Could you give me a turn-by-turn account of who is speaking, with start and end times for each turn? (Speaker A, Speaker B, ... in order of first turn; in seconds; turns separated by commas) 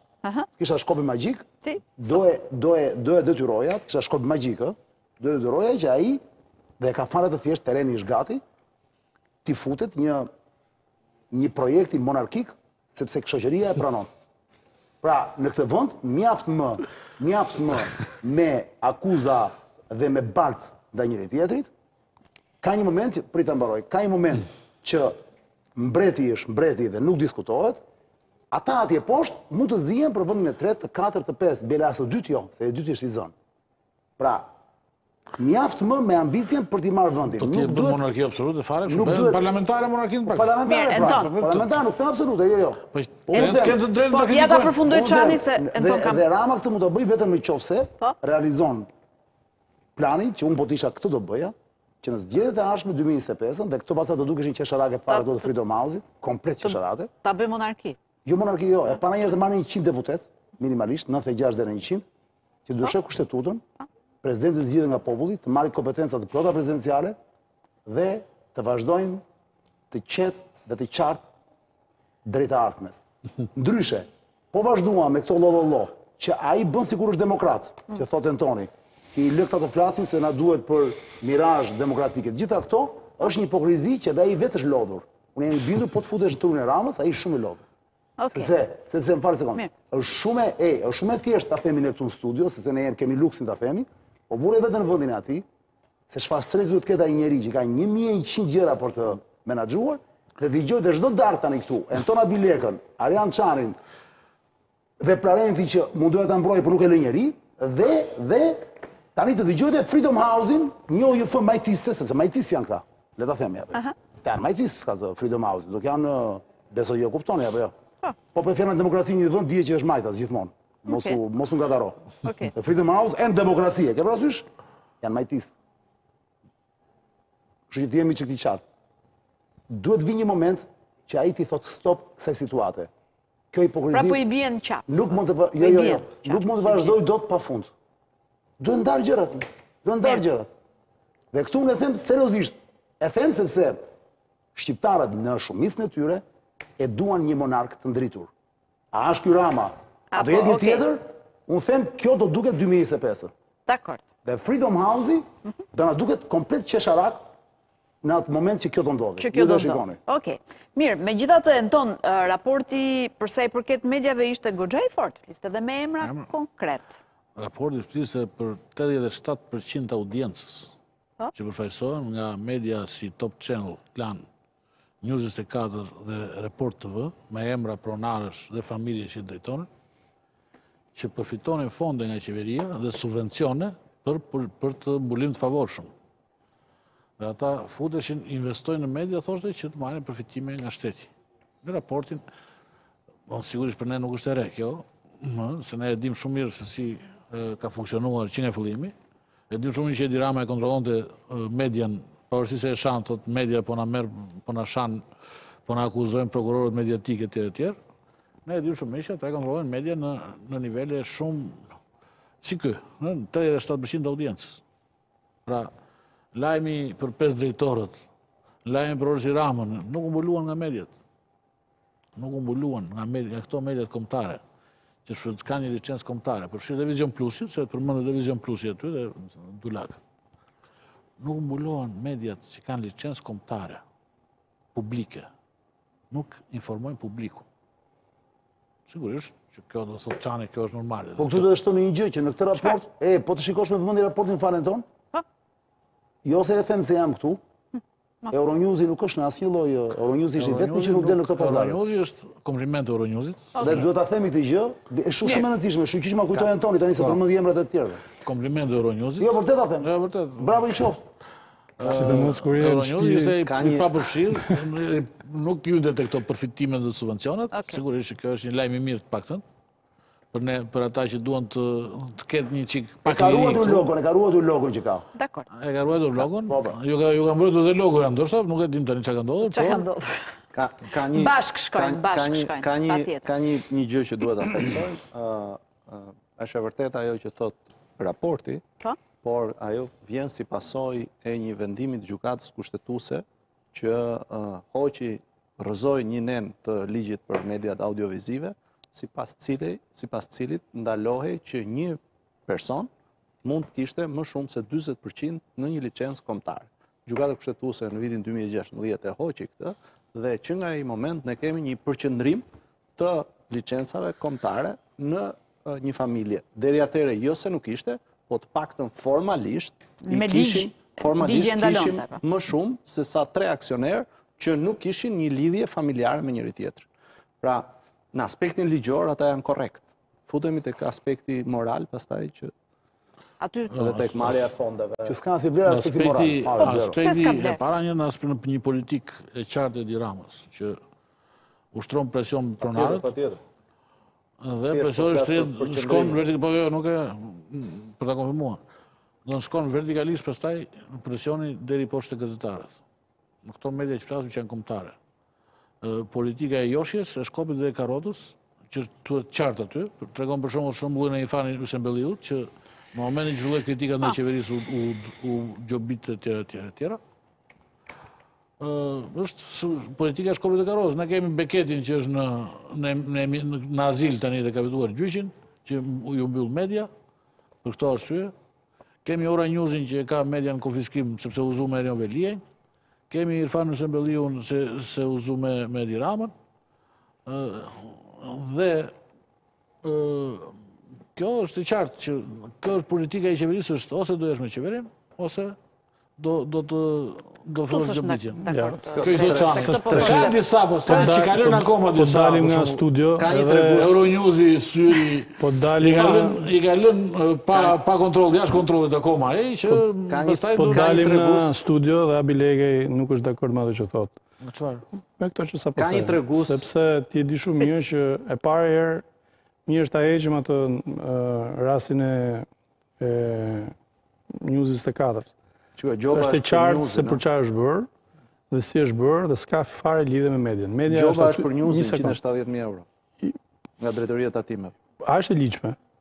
Speaker A: 0.6-1.4, Speaker A: 2.0-6.2, Speaker A: 6.8-8.4, Speaker A: 9.4-10.3, Speaker A: 11.3-14.1, Speaker A: 15.0-21.7, Speaker A: 22.6-25.1, Speaker A: 25.8-27.8, Speaker A: 28.5-33.3, Speaker A: 34.2-34.5, Speaker A: 35.4-38.0, Speaker B: 37.3-40.5, Speaker A: 38.9-39.4, Speaker A: 40.3-43.8, Speaker C: 40.7-41.3, Speaker B: 41.0-41.7, Speaker B: 42.9-44.8, Speaker C: 44.1-46.2, Speaker A: 44.8-48.9, Speaker A: 50.0-57.1, Speaker C: 55.1-55.4, Speaker C: 56.6-58.0, Speaker A: 58.2-62.0, Speaker A: 62.6-63.6, Speaker A: 64.2-67.1, Speaker A: 67.8-69.2, Speaker A: 69.9-71.3, Speaker A: 72.2-73.0, Speaker A: 73.5-87.6, Speaker C: 88.2-88.5, Speaker A: 88.3-95.4, Speaker A: 96.1-103.8, Speaker A: 105.0-117.7, Speaker A: 118.3-124.5, Speaker C: 120.9-121.2, Speaker C: 122.2-122.5, Speaker A: 125.0-125.5, Speaker A: 127.7-128.6, Speaker A: 129.7-132.9, Speaker A: 133.5-134.2, Speaker C: 133.9-134.9, Speaker A: 134.9-137.7, Speaker C: 135.6-137.0, Speaker A: 138.6-140.5, Speaker A: 141.3-143.8, Speaker A: 144.5-146.2, Speaker A: 146.8-148.3, Speaker A: 148.9-153.3, Speaker C: 150.1-150.8, Speaker C: 153.7-154.0, Speaker A: 154.2-157.2, Speaker A: 158.0-160.0, Speaker C: 159.2-167.0, Speaker B: 166.0-166.3, Speaker B: 167.3-170.7, Speaker B: 171.3-174.2, Speaker B: 175.0-179.7, Speaker B: 180.9-185.9, Speaker B: 187.2-191.1, Speaker B: 191.6-192.2, Speaker B: 193.3-198.9, Speaker B: 199.5-205.0, Speaker B: 205.7-207.8, Speaker B: 208.4-211.6, Speaker B: 212.4-214.6, Speaker B: 215.4-215.7, Speaker B: 216.3-218.0, Speaker B: 218.6-220.9, Speaker B: 222.2-224.4, Speaker B: 225.1-230.0, Speaker B: 231.2-233.8, Speaker B: 234.7-235.3, Speaker B: 236.1-237.4, Speaker B: 238.9-241.5, Speaker A: 241.2-244.8, Speaker A: 246.2-247.4, Speaker A: 248.3-251.8, Speaker B: 250.3-253.8, Speaker C: 253.5-253.8, Speaker A: 253.6-258.0, Speaker B: 258.2-260.6, Speaker A: 259.2-261.0, Speaker B: 261.8-269.4, Speaker D: 261.9-263.4, Speaker E: 263.4-264.0, Speaker C: 267.5-267.8, Speaker B: 270.3-273.9, Speaker A: 273.0-275.0, Speaker C: 275.1-275.5, Speaker B: 275.6-279.9, Speaker A: 276.5-276.8, Speaker C: 279.4-280.2, Speaker E: 280.5-288.6, Speaker C: 281.1-283.3, Speaker E: 289.2-302.9, Speaker E: 303.4-326.9, Speaker C: 320.0-322.2, Speaker E: 327.4-332.5, Speaker C: 333.4-333.8, Speaker B: 333.7-334.5, Speaker E: 333.7-335.1, Speaker A: 335.0-337.0, Speaker B: 335.6-340.8, Speaker C: 336.6-337.6, Speaker B: 341.7-343.1, Speaker E: 342.6-343.4, Speaker B: 344.4-348.6, Speaker E: 344.7-346.2, Speaker B: 349.2-352.7, Speaker B: 353.4-354.9, Speaker B: 355.8-367.0, Speaker B: 368.6-376.9, Speaker B: 377.6-378.3, Speaker B: 379.0-382.4, Speaker B: 383.1-386.3, Speaker B: 387.2-388.9, Speaker B: 389.8-390.5, Speaker B: 391.1-395.6, Speaker B: 396.2-398.4, Speaker C: 397.7-400.4, Speaker D: 398.4-400.3, Speaker E: 399.0-399.7, Speaker B: 399.0-402.8, Speaker D: 400.9-403.9, Speaker E: 403.2-404.0, Speaker B: 403.8-411.0, Speaker D: 405.4-406.5, Speaker E: 407.5-407.8, Speaker E: 410.1-411.6, Speaker D: 410.6-414.2, Speaker B: 414.4-414.8, Speaker D: 415.2-419.0, Speaker E: 415.8-416.7, Speaker D: 419.7-422.4, Speaker D: 423.0-423.7, Speaker D: 424.4-425.3, Speaker E: 425.8-427.2, Speaker D: 426.1-427.9, Speaker D: 428.5-432.2, Speaker E: 430.9-432.9, Speaker E: 433.8-434.7, Speaker D: 435.0-435.8